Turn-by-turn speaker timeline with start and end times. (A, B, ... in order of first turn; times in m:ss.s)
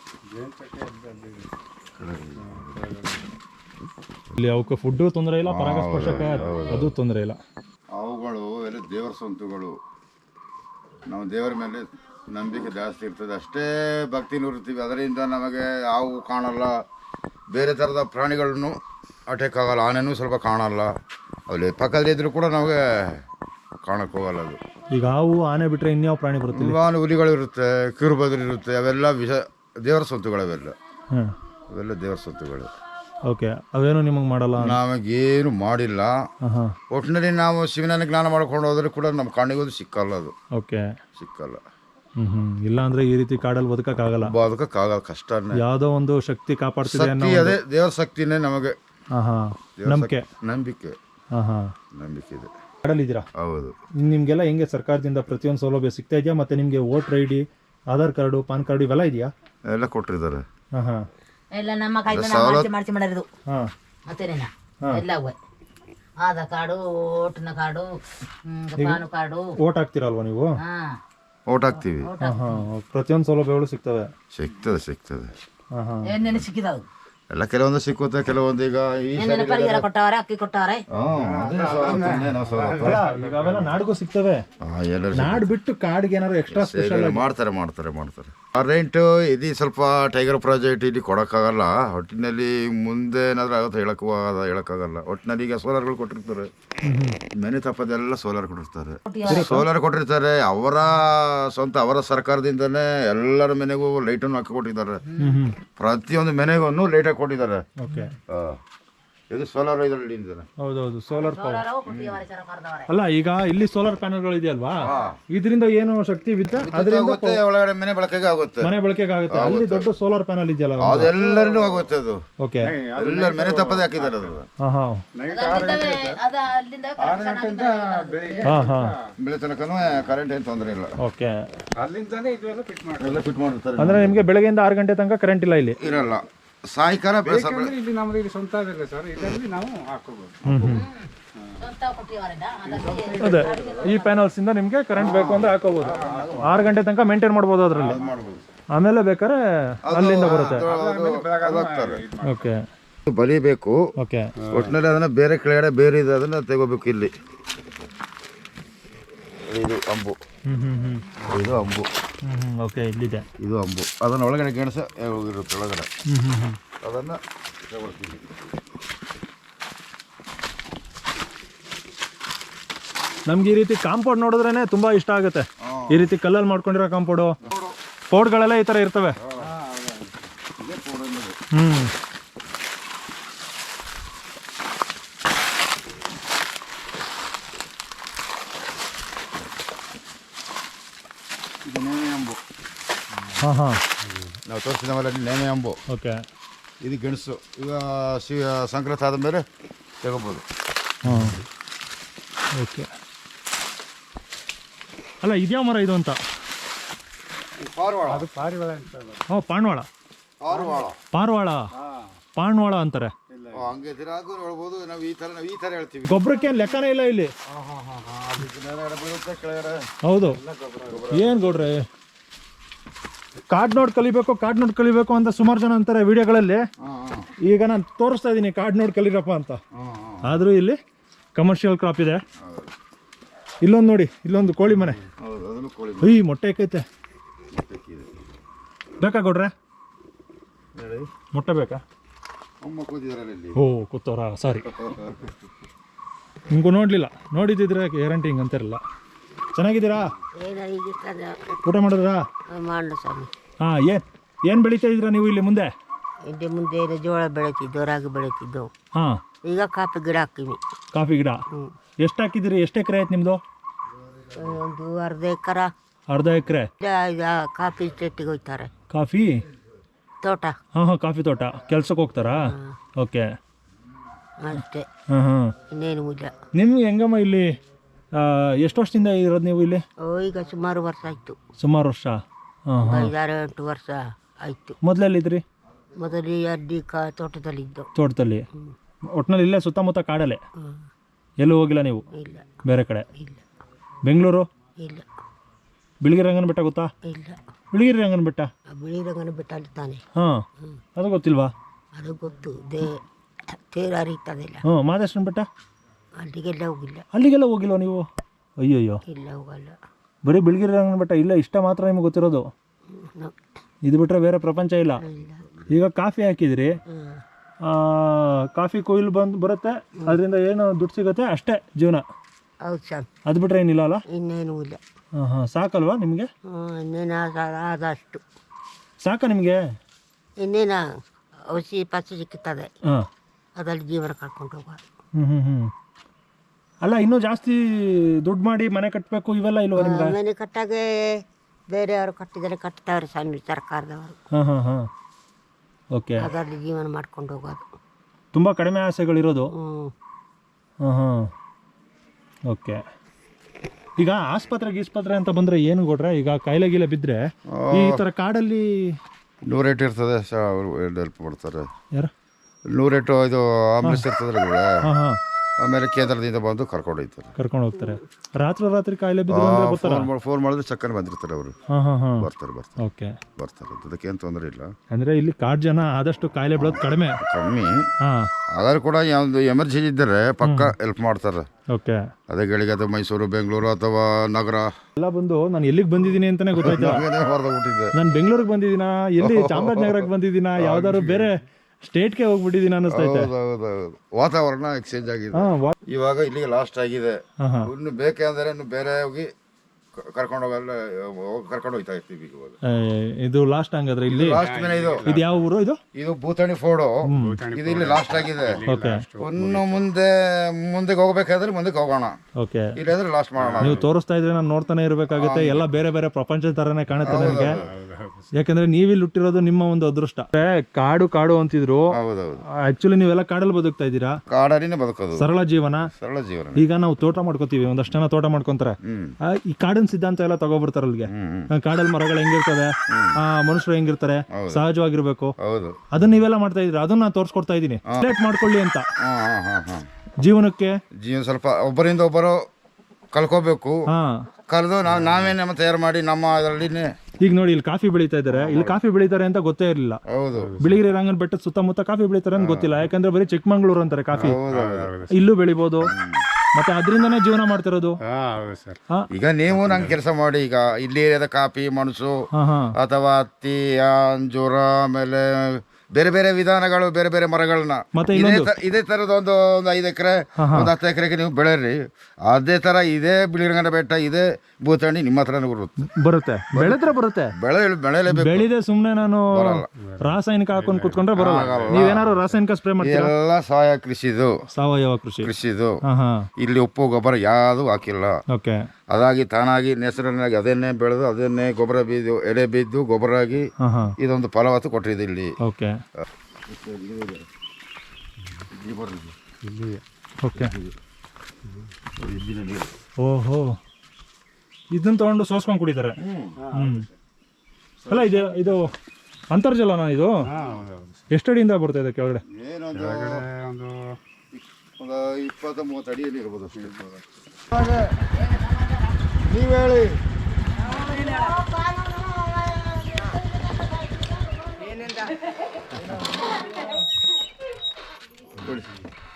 0:00.3-0:01.5 A
0:02.0-0:02.8 B
0:02.4-0:03.2 A
0:04.4-0:07.4 C
0:05.4-0:06.9 B
0:06.1-0:06.5 A
0:07.9-0:09.8 B
0:11.1-0:16.8 B
0:17.5-0:20.9 B
0:21.5-0:23.2 B
0:23.8-0:24.6 B
0:24.9-0:26.8 C
0:26.5-0:30.8 B
0:31.7-0:32.7 B
0:33.3-0:34.8 C
0:34.6-0:36.2 B
0:36.4-0:36.8 C
0:36.9-0:40.3 B
0:40.5-0:40.8 C
0:41.2-0:41.6 B
0:42.2-0:44.3 C
0:44.2-0:45.6 B
0:45.6-0:47.6 C
0:46.8-0:48.8 B
0:49.1-0:50.2 C
0:49.8-0:51.0 B
0:51.3-0:51.7 C
0:51.9-0:52.5 B
0:52.8-0:53.3 C
0:53.3-0:53.7 B
0:54.0-0:59.3 C
0:59.6-1:00.4 B
1:00.7-1:01.0 C
1:01.5-1:03.3 D
1:02.1-1:02.7 B
1:04.1-1:05.4 D
1:06.2-1:09.6 D
1:09.6-1:10.6 C
1:10.6-1:11.0 D
1:11.5-1:12.1 B
1:12.0-1:12.6 D
1:12.2-1:14.1 C
1:14.3-1:15.3 B
1:15.7-1:16.1 C
1:16.1-1:16.8 D
1:17.3-1:19.8 B
1:19.2-1:20.8 D
1:20.9-1:23.1 B
1:21.2-1:23.7 A
1:22.8-1:24.4 C
1:24.6-1:25.5 B
1:25.2-1:27.2 C
1:26.5-1:36.5 B
1:36.8-1:37.2 C
1:37.3-1:45.0 B
1:39.1-1:39.6 D
1:39.3-1:39.6 C
1:45.1-1:45.4 D
1:45.2-1:45.5 C
1:45.8-1:47.6 B
1:47.8-1:48.1 C
1:48.3-1:48.6 B
1:49.3-1:50.5 B
1:50.6-1:51.6 C
1:51.2-1:52.9 D
1:51.9-1:52.2 B
1:52.9-1:57.4 C
1:54.8-1:55.2 B
1:56.6-1:58.7 B
1:58.6-2:01.1 C
1:59.3-1:59.9 B
2:00.8-2:02.2 B
2:01.2-2:01.8 A
2:02.4-2:02.7 C
2:02.6-2:04.3 A
2:02.9-2:04.5 B
2:04.6-2:05.0 C
2:05.1-2:06.2 A
2:05.3-2:08.5 D
2:07.0-2:09.1 A
2:08.4-2:08.9 C
2:09.2-2:10.9 B
2:11.0-2:11.3 C
2:11.8-2:13.2 A
2:13.0-2:14.2 B
2:13.8-2:15.8 C
2:15.8-2:17.7 B
2:17.2-2:20.4 A
2:20.4-2:20.8 B
2:20.5-2:20.9 C
2:21.6-2:24.1 D
2:22.6-2:23.9 A
2:23.2-2:28.0 C
2:25.0-2:25.5 B
2:25.8-2:26.7 A
2:26.1-2:26.4 B
2:27.8-2:28.1 A
2:27.8-2:28.4 B
2:28.7-2:30.6 C
2:29.9-2:32.0 B
2:30.4-2:32.5 A
2:32.2-2:32.6 C
2:33.1-2:33.8 B
2:34.0-2:34.3 C
2:34.4-2:34.7 A
2:34.5-2:37.1 B
2:39.5-2:40.2 B
2:40.5-2:41.0 C
2:41.2-2:41.9 B
2:42.2-2:43.2 C
2:43.4-2:45.9 B
2:46.1-2:46.6 C
2:46.8-2:48.2 B
2:53.3-2:57.4 C
2:55.6-2:56.1 B
2:57.4-2:57.7 B
2:58.1-2:59.2 C
2:59.4-3:00.1 A
3:00.6-3:01.4 B
3:01.5-3:01.9 C
3:11.6-3:12.4 B
3:13.4-3:13.8 C
3:14.0-3:14.3 A
3:14.5-3:15.8 B
3:15.9-3:16.2 C
3:16.8-3:19.4 B
3:20.0-3:20.4 B
3:21.0-3:21.4 C
3:21.1-3:21.4 A
3:22.6-3:22.9 C
3:25.2-3:26.2 C
3:27.6-3:28.3 B
3:28.0-3:29.2 A
3:29.3-3:29.9 C
3:30.4-3:31.0 B
3:30.5-3:30.8 A
3:31.1-3:31.7 C
3:31.8-3:32.1 A
3:32.4-3:33.1 C
3:33.3-3:33.6 A
3:33.5-3:36.4 B
3:36.1-3:37.3 C
3:37.5-3:39.8 B
3:40.0-3:40.4 C
3:40.2-3:41.1 A
3:40.8-3:41.7 B
3:41.1-3:41.8 C
3:43.5-3:46.6 C
3:46.8-3:47.3 B
3:47.4-3:49.6 C
3:49.7-3:50.4 B
3:50.2-3:50.8 C
3:51.4-3:52.2 C
3:52.4-3:52.7 B
3:53.6-3:55.0 C
3:55.2-3:56.2 B
3:56.0-3:56.8 C
3:57.5-3:58.1 B
3:59.0-3:59.5 C
4:00.7-4:01.1 B
4:01.3-4:01.8 C
4:02.6-4:03.6 B
4:03.6-4:04.6 C
4:04.6-4:05.3 B
4:06.5-4:08.8 C
4:09.5-4:10.1 C
4:10.4-4:11.4 E
4:11.6-4:12.2 C
4:12.5-4:13.3 E
4:13.6-4:15.7 C
4:16.2-4:18.7 E
4:18.9-4:19.2 C
4:19.4-4:20.6 E
4:20.9-4:21.4 C
4:22.0-4:23.4 C
4:24.4-4:25.7 E
4:26.1-4:26.7 C
4:26.8-4:28.7 E
4:28.9-4:29.4 C
4:30.2-4:30.6 E
4:30.7-4:33.3 C
4:32.4-4:32.8 E
4:34.4-4:34.9 E
4:35.1-4:35.5 C
4:35.7-4:36.3 E
4:36.5-4:37.5 C
4:38.1-4:39.8 C
4:40.0-4:41.4 E
4:41.6-4:43.1 C
4:42.8-4:44.8 E
4:44.8-4:45.4 C
4:46.0-4:47.9 E
4:47.9-4:48.4 C
4:49.1-4:50.4 C
4:50.6-4:50.8 E
4:51.4-4:52.0 C
4:52.1-4:52.5 E
4:52.6-4:53.1 C
4:53.2-4:53.4 E
4:54.0-4:54.5 C
4:54.8-4:55.0 E
4:56.0-4:56.9 C
4:57.0-4:57.4 E
4:57.7-4:58.5 C
4:58.7-5:00.0 E
5:00.2-5:00.4 C
5:01.0-5:01.5 C
5:01.9-5:04.6 E
5:04.6-5:05.5 C
5:06.2-5:07.0 E
5:07.1-5:08.1 C
5:08.6-5:09.0 C
5:09.1-5:09.8 E
5:10.2-5:12.5 C
5:12.9-5:13.4 E
5:13.8-5:15.0 C
5:15.0-5:15.5 E
5:15.7-5:16.8 C
5:16.9-5:17.2 E
5:17.6-5:22.0 C
5:22.6-5:23.1 E
5:23.3-5:24.0 C
5:24.1-5:24.8 E
5:25.2-5:26.3 C
5:26.5-5:28.2 E
5:29.0-5:29.6 C
5:30.4-5:30.9 E
5:31.5-5:32.7 E
5:33.6-5:34.8 E
5:35.1-5:35.7 C
5:36.8-5:40.1 C
5:39.8-5:44.2 E
5:44.3-5:44.9 C
5:45.9-5:46.3 C
5:46.2-5:47.7 E
5:48.3-5:49.5 C
5:49.5-5:49.9 E
5:50.8-5:51.3 C
5:52.5-5:52.8 C
5:54.0-5:59.0 C
5:57.5-5:58.0 B
5:59.4-6:01.7 B
6:02.7-6:04.8 B
6:04.8-6:05.2 C
6:05.6-6:07.3 B
6:07.4-6:10.1 C
6:09.3-6:11.5 B
6:11.7-6:12.3 C
6:12.2-6:12.8 B
6:12.8-6:13.2 C
6:13.4-6:14.7 B
6:14.9-6:17.2 C
6:16.6-6:17.8 B
6:18.0-6:18.3 C
6:18.5-6:21.5 B
6:20.4-6:20.7 C
6:21.7-6:22.0 C
6:22.3-6:24.7 B
6:25.0-6:27.0 C
6:26.6-6:27.9 B
6:27.9-6:33.3 C
6:29.2-6:30.1 B
6:30.6-6:31.2 B
6:32.9-6:39.3 B
6:35.3-6:35.8 C
6:37.4-6:37.7 C
6:39.9-6:42.6 B
6:42.7-6:44.4 C
6:44.1-6:45.2 B
6:44.4-6:45.3 A
6:45.0-6:45.8 C
6:45.9-6:48.6 B
6:47.1-6:47.4 C
6:47.1-6:49.8 A
6:48.6-6:49.0 C
6:49.2-6:52.2 B
6:52.4-6:52.7 C
6:52.8-6:53.9 B
6:53.4-6:53.9 A
6:53.6-6:57.6 C
6:55.1-6:55.6 B
6:57.0-6:57.7 B
6:57.6-6:58.2 A
6:58.4-7:01.9 C
7:01.9-7:02.4 B
7:02.6-7:04.2 C
7:04.3-7:05.3 B
7:05.2-7:05.9 C
7:05.9-7:06.7 B
7:06.5-7:15.3 C
7:08.8-7:09.1 B
7:11.0-7:11.5 B
7:12.9-7:13.2 B
7:14.3-7:14.6 B
7:15.4-7:15.8 B
7:15.9-7:18.8 C
7:19.0-7:19.9 B
7:20.2-7:20.8 C
7:21.0-7:22.4 B
7:23.1-7:23.8 B
7:23.9-7:24.2 C
7:24.5-7:26.9 B
7:24.9-7:25.2 A
7:27.2-7:30.0 C
7:28.3-7:28.8 B
7:30.1-7:30.5 B
7:30.4-7:30.8 A
7:30.6-7:34.4 C
7:32.4-7:32.7 B
7:34.2-7:34.9 B
7:34.2-7:35.2 A
7:35.1-7:35.9 C
7:35.8-7:36.2 B
7:36.6-7:38.0 C
7:38.1-7:38.8 A
7:39.1-7:42.2 B
7:39.5-7:40.0 A
7:42.3-7:42.7 C
7:42.7-7:55.9 B
7:48.0-7:48.5 C
7:50.4-7:50.7 C
7:55.8-7:57.3 C
7:56.5-7:58.5 B
7:58.1-8:03.1 C
7:59.3-7:59.7 B
7:59.8-8:02.3 A
8:01.1-8:02.0 B
8:02.8-8:04.3 B
8:04.5-8:05.3 C
8:05.2-8:05.8 B
8:05.8-8:06.2 C
8:06.4-8:08.2 B
8:08.3-8:08.6 C
8:08.9-8:13.4 B
8:13.6-8:13.9 C
8:14.0-8:15.3 B
8:15.4-8:15.8 C
8:16.0-8:17.2 B
8:18.5-8:19.1 B
8:19.4-8:19.8 A
8:20.2-8:20.5 C
8:20.4-8:20.7 B
8:22.0-8:22.7 B
8:23.0-8:23.6 C
8:24.7-8:26.0 C
8:26.0-8:26.4 B
8:26.4-8:26.9 A
8:26.5-8:26.8 C
8:27.9-8:28.7 C
8:29.3-8:30.2 C
8:30.3-8:31.0 A
8:31.1-8:32.2 C
8:32.3-8:33.2 B
8:32.7-8:33.9 A
8:34.3-8:36.7 B
8:36.5-8:37.0 A
8:37.5-8:38.0 B
8:39.2-8:40.0 B
8:48.4-8:48.7 B